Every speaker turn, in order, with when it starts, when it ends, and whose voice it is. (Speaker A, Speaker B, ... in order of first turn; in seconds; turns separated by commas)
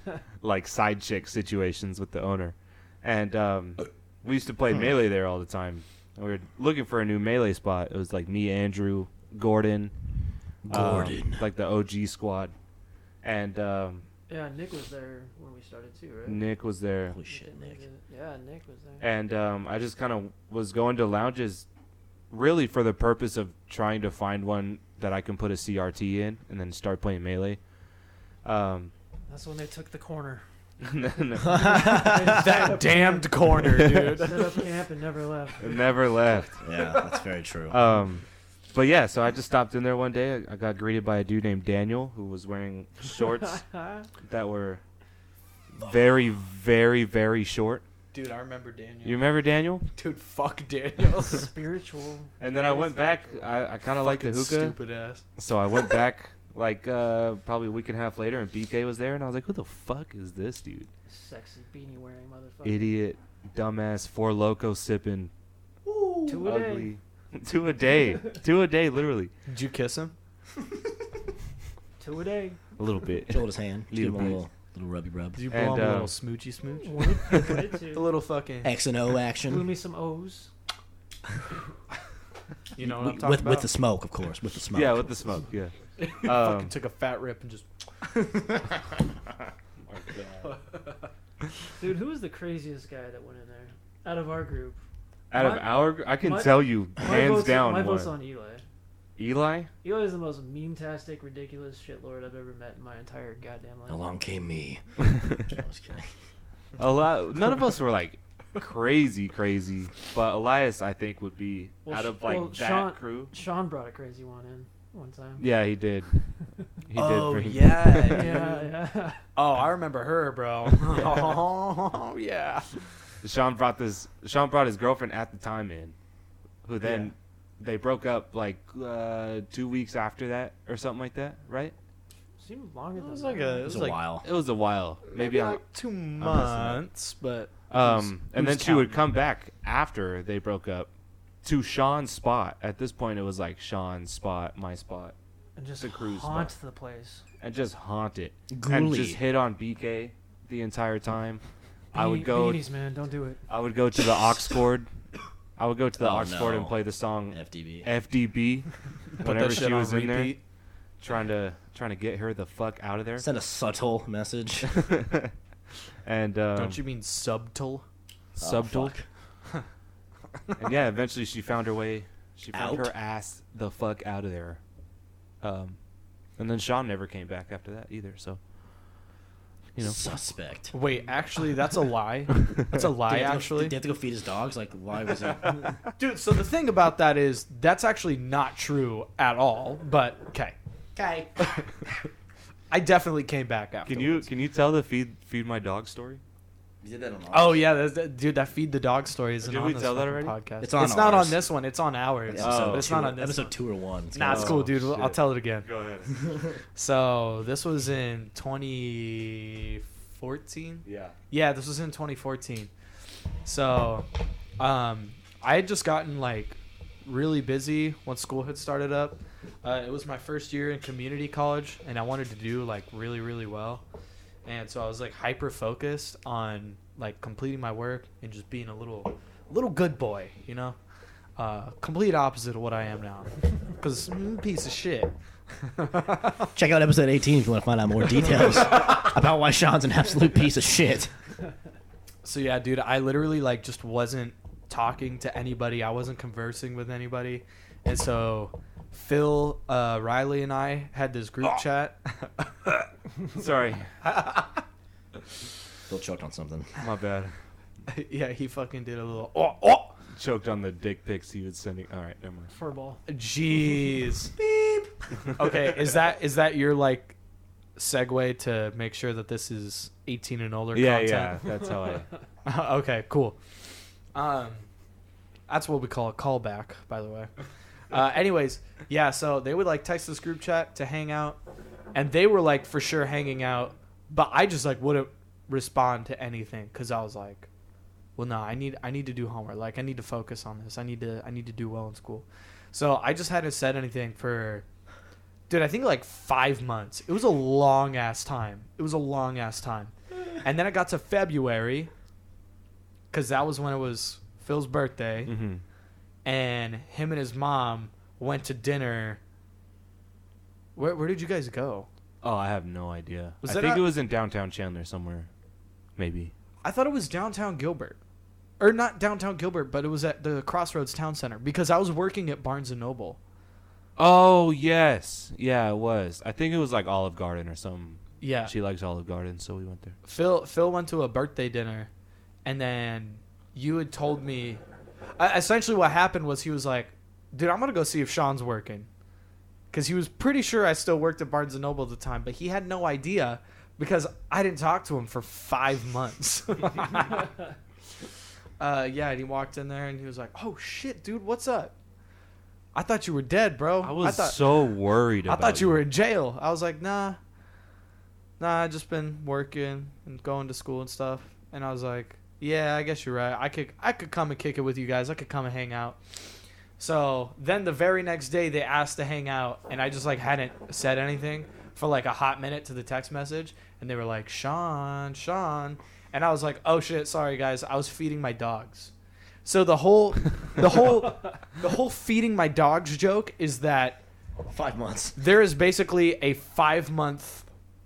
Speaker A: 0.4-9.9, Speaker B: 10.6-11.4, Speaker A: 10.7-12.5, Speaker A: 13.2-14.1, Speaker C: 14.3-16.4, Speaker A: 16.3-17.2, Speaker B: 17.1-17.8, Speaker C: 17.3-19.1, Speaker A: 19.0-21.7, Speaker A: 22.3-27.6, Speaker A: 28.4-28.9, Speaker C: 29.3-30.4, Speaker A: 30.8-31.9, Speaker B: 31.4-32.6, Speaker C: 31.5-35.8, Speaker D: 32.3-34.6, Speaker A: 33.8-34.1, Speaker A: 35.6-36.6, Speaker B: 36.6-37.8, Speaker A: 37.7-43.7, Speaker C: 43.2-44.1, Speaker A: 44.2-44.8, Speaker A: 45.8-47.9, Speaker D: 48.1-49.2, Speaker A: 49.0-49.9, Speaker D: 49.9-51.5, Speaker C: 51.0-53.5, Speaker A: 52.4-54.8, Speaker D: 54.0-55.2, Speaker A: 55.4-60.9, Speaker C: 61.1-63.0, Speaker A: 62.6-65.3, Speaker B: 65.9-66.4, Speaker C: 66.3-66.9, Speaker A: 66.4-69.3, Speaker D: 69.5-70.1, Speaker C: 72.0-72.6, Speaker A: 72.8-74.4, Speaker B: 73.3-75.4, Speaker D: 75.3-78.7, Speaker A: 75.5-76.2, Speaker C: 76.8-78.1, Speaker B: 78.6-79.7, Speaker C: 79.4-80.5, Speaker D: 82.8-83.7, Speaker B: 82.8-85.2, Speaker A: 84.7-86.7, Speaker D: 86.0-87.7, Speaker A: 89.9-90.5, Speaker C: 91.8-94.8, Speaker A: 95.3-98.1, Speaker C: 95.3-98.7, Speaker A: 99.2-99.7, Speaker C: 99.8-104.0, Speaker B: 103.9-106.1, Speaker A: 106.8-113.3, Speaker C: 111.9-115.5, Speaker A: 115.4-116.3, Speaker A: 116.9-118.3, Speaker D: 117.0-118.7, Speaker C: 118.1-119.2, Speaker D: 119.3-122.8, Speaker A: 123.2-126.0, Speaker A: 126.7-131.8, Speaker D: 126.8-127.1, Speaker C: 132.4-133.7, Speaker D: 133.0-134.1, Speaker B: 133.7-134.2, Speaker A: 134.2-135.6, Speaker D: 135.1-139.0, Speaker A: 136.2-136.8, Speaker A: 137.7-140.9, Speaker A: 141.4-145.2, Speaker C: 145.6-147.2, Speaker A: 145.8-146.5, Speaker A: 147.4-152.7, Speaker B: 148.5-149.2, Speaker C: 151.9-153.4, Speaker A: 153.5-154.9, Speaker A: 155.6-160.4, Speaker B: 156.0-156.8, Speaker B: 157.3-157.9, Speaker D: 159.2-160.4, Speaker A: 161.0-163.3, Speaker B: 163.2-164.8, Speaker A: 164.7-165.3, Speaker A: 166.1-166.8, Speaker D: 166.6-167.8, Speaker A: 168.4-168.9, Speaker B: 168.4-169.1, Speaker A: 170.6-174.6, Speaker B: 172.5-172.9, Speaker A: 175.4-175.8, Speaker A: 176.4-178.4, Speaker B: 179.8-180.8, Speaker D: 180.7-183.8, Speaker B: 183.1-185.8, Speaker D: 186.0-190.6, Speaker B: 191.0-191.4, Speaker D: 192.7-194.3, Speaker A: 193.9-196.2, Speaker B: 196.8-197.6, Speaker D: 197.3-203.5, Speaker A: 199.4-200.3, Speaker B: 200.6-201.4, Speaker B: 202.2-204.7, Speaker A: 202.4-203.0, Speaker D: 204.1-205.7, Speaker A: 204.2-206.1, Speaker D: 206.8-212.7, Speaker A: 210.8-211.2, Speaker D: 213.4-214.1, Speaker D: 214.6-223.8, Speaker D: 224.4-230.8, Speaker D: 231.4-236.5, Speaker B: 236.6-241.1, Speaker D: 238.7-239.1, Speaker D: 242.2-252.9, Speaker A: 253.3-253.9, Speaker D: 254.1-254.5, Speaker B: 255.9-256.7, Speaker A: 256.8-257.3, Speaker D: 257.9-260.0, Speaker A: 260.1-262.5, Speaker C: 262.5-263.0, Speaker D: 263.1-264.3, Speaker B: 264.4-264.9, Speaker D: 265.4-267.1, Speaker D: 267.8-271.5, Speaker A: 270.7-272.1, Speaker D: 272.4-273.6, Speaker D: 274.1-274.7, Speaker D: 275.5-277.3, Speaker D: 277.9-281.4, Speaker D: 281.9-287.5, Speaker D: 288.2-294.6, Speaker D: 295.5-301.9, Speaker D: 303.1-305.3, Speaker A: 305.2-305.6, Speaker D: 306.2-309.2, Speaker D: 310.8-311.9, Speaker A: 312.2-315.3, Speaker D: 313.4-313.9, Speaker A: 316.0-316.3, Speaker D: 316.6-318.0, Speaker D: 318.6-323.2, Speaker A: 324.0-330.0, Speaker D: 328.2-328.5, Speaker D: 330.1-331.9, Speaker D: 332.4-334.6, Speaker D: 335.2-338.9, Speaker D: 339.7-347.3, Speaker D: 348.6-351.7, Speaker D: 352.7-354.7, Speaker A: 353.8-355.8, Speaker D: 355.3-357.2, Speaker D: 358.4-366.2, Speaker D: 366.8-378.9, Speaker D: 379.4-384.0, Speaker B: 384.5-385.2, Speaker D: 385.2-387.5